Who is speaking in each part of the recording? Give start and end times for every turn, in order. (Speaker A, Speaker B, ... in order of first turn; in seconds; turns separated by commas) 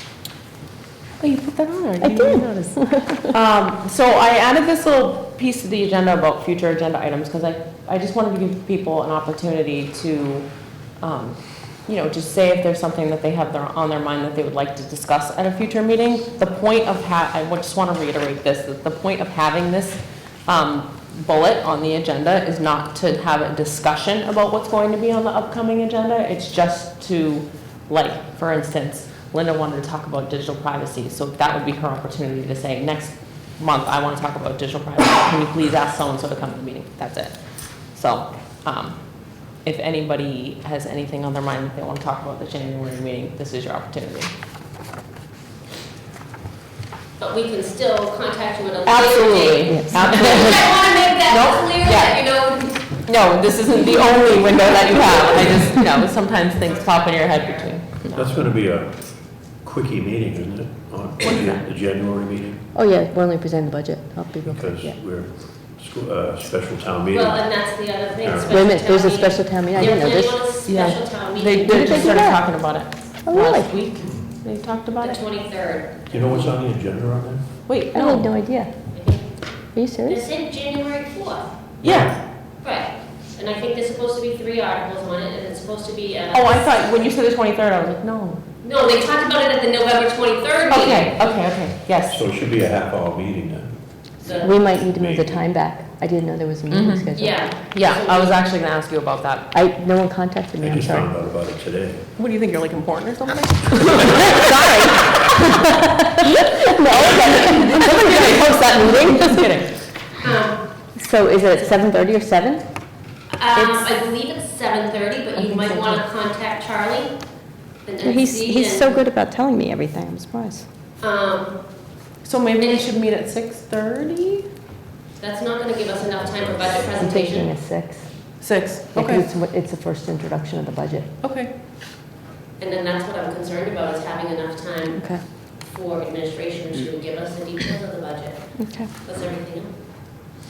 Speaker A: 1.2-44.3, Speaker B: 2.0-3.3, Speaker C: 47.2-53.0, Speaker A: 48.9-58.3, Speaker B: 49.7-50.6, Speaker C: 53.9-55.4, Speaker C: 56.7-57.9, Speaker D: 58.1-62.6, Speaker A: 61.2-61.7, Speaker B: 62.7-65.0, Speaker D: 64.4-68.6, Speaker C: 67.1-72.3, Speaker B: 68.5-70.5, Speaker A: 70.7-75.2, Speaker B: 71.7-73.8, Speaker C: 75.0-76.5, Speaker D: 76.1-77.5, Speaker A: 77.7-78.3, Speaker B: 77.9-80.2, Speaker C: 78.9-81.6, Speaker D: 81.8-82.2, Speaker A: 81.8-82.1, Speaker C: 82.4-86.8, Speaker A: 86.3-88.4, Speaker C: 88.6-91.3, Speaker A: 90.7-92.3, Speaker D: 92.1-95.5, Speaker C: 94.2-94.5, Speaker B: 94.4-97.4, Speaker A: 96.7-99.5, Speaker C: 97.1-98.5, Speaker B: 99.5-101.1, Speaker D: 100.6-102.1, Speaker A: 102.2-105.4, Speaker B: 103.9-105.7, Speaker B: 106.6-109.6, Speaker A: 106.9-109.9, Speaker C: 110.2-110.9, Speaker B: 110.9-112.9, Speaker C: 113.3-119.1, Speaker B: 113.5-113.9, Speaker A: 115.4-116.0, Speaker B: 118.0-120.7, Speaker C: 121.0-122.0, Speaker A: 122.2-124.5, Speaker C: 122.6-122.9, Speaker C: 125.2-127.5, Speaker D: 126.3-127.0, Speaker B: 127.0-131.1, Speaker A: 128.4-129.2, Speaker A: 131.2-131.5, Speaker C: 132.6-140.3, Speaker B: 134.9-135.2, Speaker B: 138.6-138.9